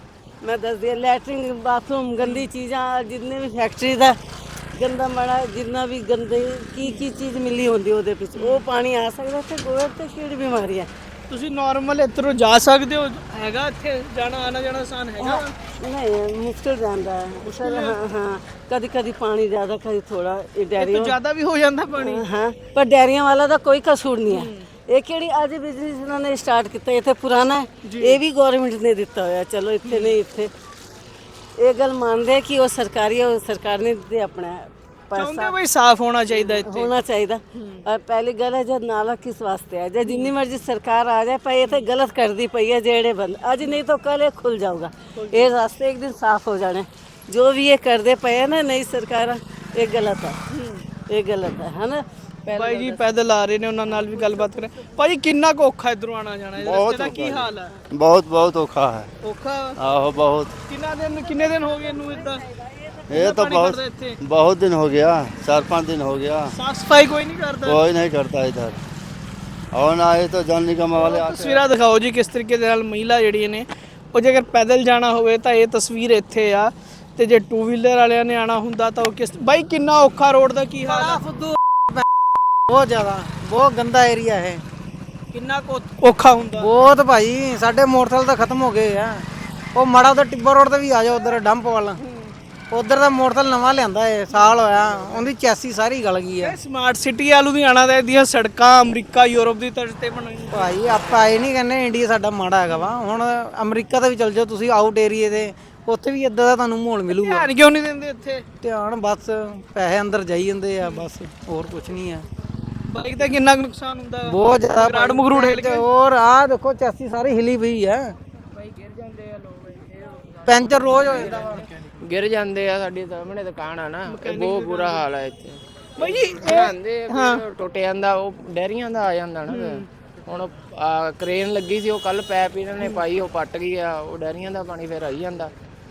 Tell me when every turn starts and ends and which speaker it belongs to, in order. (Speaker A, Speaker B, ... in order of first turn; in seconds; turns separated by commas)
Speaker A: 0.4-4.2, Speaker B: 2.2-2.5, Speaker A: 4.8-10.9, Speaker B: 8.3-8.7, Speaker B: 11.3-15.5, Speaker A: 15.2-21.1, Speaker B: 17.4-18.0, Speaker B: 20.8-22.2, Speaker A: 22.0-30.5, Speaker B: 24.3-24.7, Speaker B: 27.8-28.2, Speaker B: 29.8-30.1, Speaker A: 31.6-35.5, Speaker B: 35.1-36.9, Speaker A: 36.3-50.4, Speaker B: 37.5-37.8, Speaker B: 40.0-40.3, Speaker B: 45.1-45.5, Speaker B: 50.5-50.8, Speaker A: 51.0-53.0, Speaker B: 52.5-57.8, Speaker A: 53.9-54.9, Speaker C: 56.6-59.1, Speaker B: 59.2-59.8, Speaker C: 59.8-60.5, Speaker B: 60.7-62.4, Speaker A: 61.1-63.0, Speaker B: 63.1-64.2, Speaker C: 63.3-66.5, Speaker B: 66.5-67.9, Speaker C: 67.7-68.8, Speaker C: 69.7-71.5, Speaker B: 70.8-81.2, Speaker D: 80.8-82.0, Speaker D: 82.7-84.6, Speaker B: 85.3-86.7, Speaker D: 86.6-92.0, Speaker D: 92.7-96.5, Speaker B: 94.3-95.3, Speaker B: 96.4-101.0, Speaker D: 100.5-107.5, Speaker B: 102.7-102.9, Speaker B: 107.1-108.5, Speaker D: 108.6-112.2, Speaker B: 110.8-111.1, Speaker B: 112.9-115.8, Speaker D: 114.2-118.1, Speaker E: 118.5-135.5, Speaker D: 120.5-121.7, Speaker B: 124.0-125.0, Speaker B: 126.0-127.4, Speaker B: 129.5-129.8